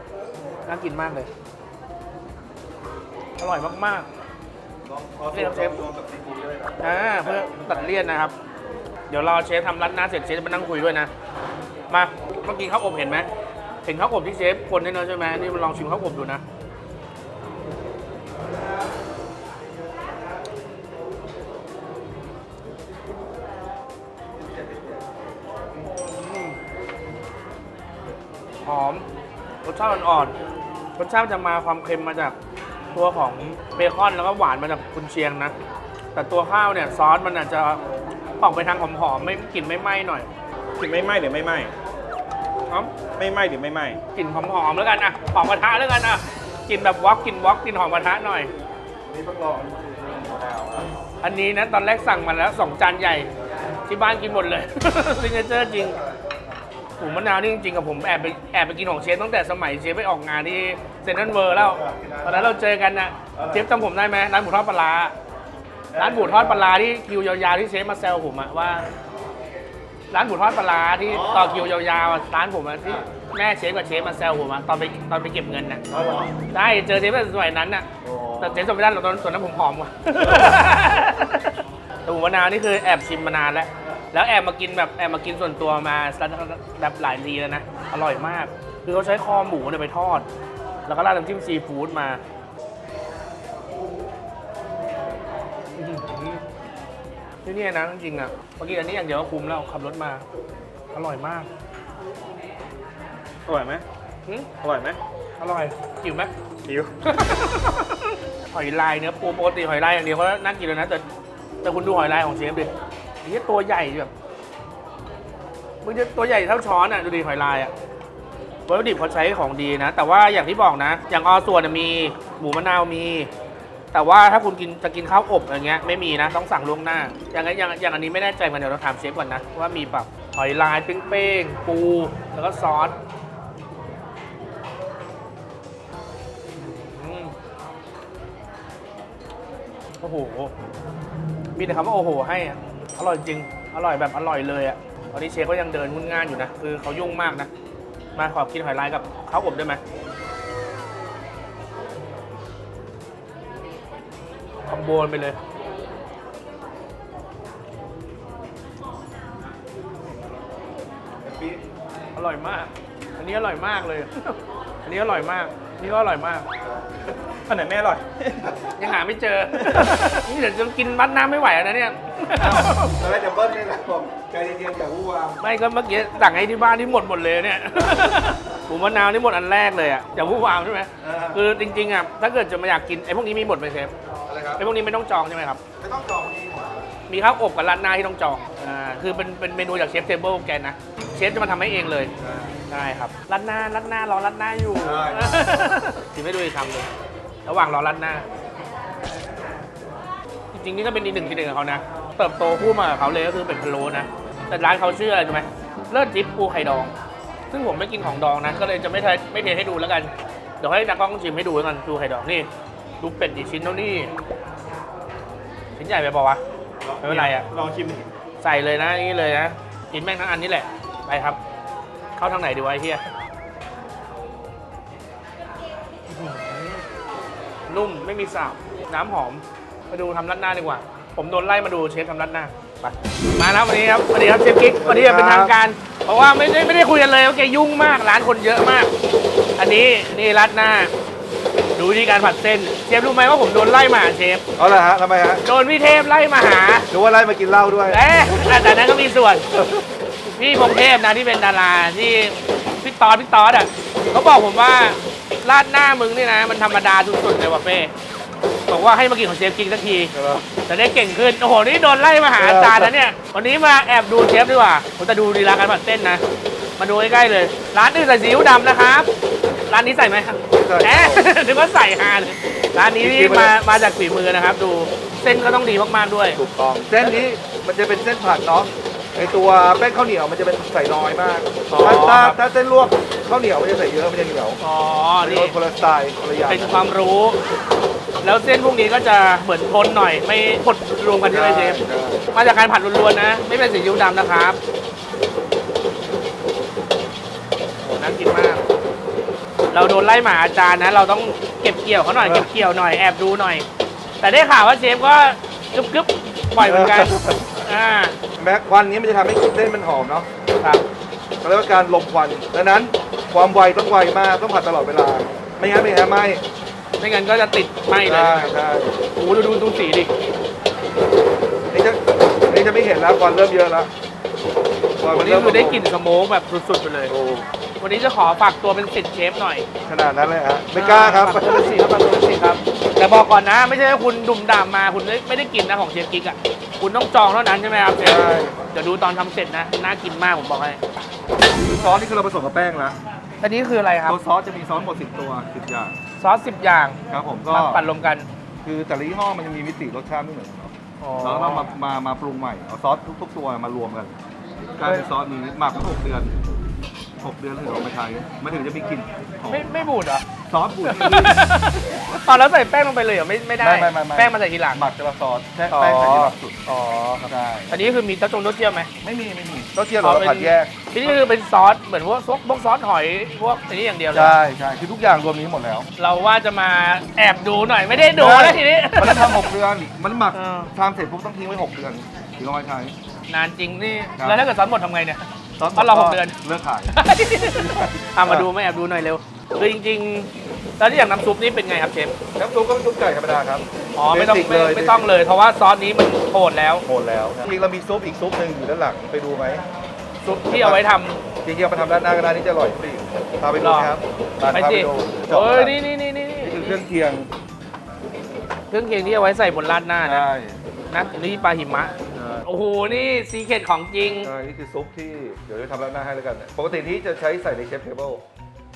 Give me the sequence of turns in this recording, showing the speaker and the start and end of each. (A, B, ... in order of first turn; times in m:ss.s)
0:00.7-0:01.3 A
0:03.4-0:04.1 A
0:04.8-0:08.0 B
0:05.3-0:05.8 A
0:06.8-0:08.3 A
0:09.1-0:11.1 A
0:11.9-0:13.3 A
0:13.8-0:16.4 A
0:26.1-0:26.6 A
0:28.6-0:29.1 A
0:29.6-0:30.4 A
0:31.0-0:32.4 A
0:32.9-0:35.5 A
0:36.1-0:37.8 A
0:38.4-0:40.3 A
0:40.8-0:41.7 C
0:43.2-0:44.0 C
0:44.1-0:48.5 A
0:49.1-0:50.9 B
0:51.2-0:53.3 A
0:53.9-0:56.0 A
0:55.7-0:56.5 B
0:57.0-1:05.2 A
1:01.5-1:02.6 B
1:03.3-1:03.7 B
1:05.9-1:06.7 B
1:06.0-1:08.9 A
1:10.1-1:15.8 A
1:11.0-1:11.7 B
1:15.9-1:16.4 B
1:16.5-1:17.9 A
1:18.0-1:18.7 B
1:18.4-1:30.3 A
1:20.3-1:20.6 B
1:30.9-1:32.2 A
1:35.8-1:36.4 A
1:37.4-1:40.2 A
1:40.9-1:41.5 A
1:43.5-1:43.8 C
1:44.6-1:45.0 C
1:45.4-1:46.3 A
1:46.6-1:46.9 C
1:47.0-1:51.0 A
1:51.6-1:52.7 A
1:53.2-1:54.1 A
1:55.8-1:57.7 A
1:58.7-2:03.3 A
2:03.9-2:12.9 A
2:16.6-2:17.4 A
2:20.0-2:20.5 A
2:21.6-2:27.5 A
2:28.2-2:29.8 A
2:34.7-2:35.4 A
2:41.2-2:41.6 B
2:42.2-2:46.5 A
2:46.6-2:47.4 B
2:47.5-2:48.4 C
2:48.8-2:53.0 A
2:52.3-2:55.4 B
2:55.4-3:03.9 A
3:01.0-3:01.4 B
3:04.3-3:04.7 B
3:04.6-3:05.6 A
3:05.8-3:06.9 B
3:07.1-3:12.1 A
3:12.2-3:12.6 B
3:12.7-3:16.9 A
3:14.8-3:15.7 B
3:17.5-3:18.3 A
3:20.5-3:26.9 A
3:27.5-3:32.5 A
3:33.0-3:34.1 A
3:35.8-3:36.4 A
3:36.9-3:38.1 C
3:37.0-3:37.5 A
3:38.4-3:41.4 A
3:42.2-3:43.0 A
3:46.1-3:46.8 A
3:47.7-3:58.9 A
3:54.8-3:55.6 B
3:59.6-4:00.9 A
4:01.7-4:04.4 A
4:04.6-4:05.4 B
4:05.4-4:06.9 A
4:06.9-4:08.3 B
4:07.9-4:09.5 A
4:09.5-4:09.8 B
4:10.2-4:17.9 A
4:18.7-4:20.2 A
4:20.1-4:20.5 B
4:20.7-4:26.2 A
4:22.4-4:22.9 B
4:26.8-4:29.1 A
4:29.7-4:36.4 A
4:30.5-4:31.2 B
4:33.0-4:33.6 B
4:36.4-4:44.6 B
4:41.7-4:42.4 A
4:44.6-4:45.6 A
4:45.2-4:46.8 B
4:46.5-4:47.4 A
4:48.2-4:51.8 A
4:51.3-4:52.3 B
4:52.3-4:54.6 A
4:57.9-4:58.6 A
4:59.7-5:03.7 A
5:02.2-5:02.5 B
5:04.2-5:08.2 A
5:06.6-5:07.7 B
5:08.4-5:10.3 B
5:11.4-5:16.4 B
5:17.0-5:18.6 A
5:18.0-5:19.1 B
5:19.2-5:20.1 A
5:21.7-5:23.9 B
5:25.0-5:25.8 B
5:25.1-5:27.1 A
5:27.1-5:27.5 B
5:27.8-5:29.7 A
5:29.8-5:31.8 B
5:30.7-5:40.8 A
5:38.0-5:38.7 B
5:41.6-5:43.0 B
5:43.4-5:44.2 A
5:44.1-5:46.0 B
5:46.2-5:48.3 A
5:47.1-5:47.8 B
5:48.6-5:54.2 B
5:51.0-5:51.7 A
5:54.8-5:56.5 B
5:57.2-5:59.8 B
5:59.5-6:00.3 A
6:00.5-6:01.5 B
6:00.8-6:04.8 A
6:03.6-6:06.6 B
6:05.7-6:08.9 A
6:07.2-6:07.9 B
6:09.0-6:11.2 B
6:10.0-6:14.4 A
6:14.1-6:15.9 B
6:16.0-6:19.5 A
6:18.1-6:23.0 B
6:20.3-6:20.7 A
6:23.3-6:32.2 A
6:24.2-6:24.5 B
6:25.6-6:27.0 B
6:27.5-6:28.5 B
6:32.4-6:35.2 B
6:34.0-6:36.9 A
6:36.8-6:39.7 B
6:40.2-6:41.2 A
6:40.4-6:40.8 B
6:41.4-6:45.8 B
6:43.6-6:43.9 A
6:44.5-6:46.8 A
6:46.4-6:47.3 B
6:48.7-6:50.3 A
6:50.0-6:50.6 B
6:50.9-6:54.3 A
6:52.1-6:52.5 B
6:54.2-6:58.2 B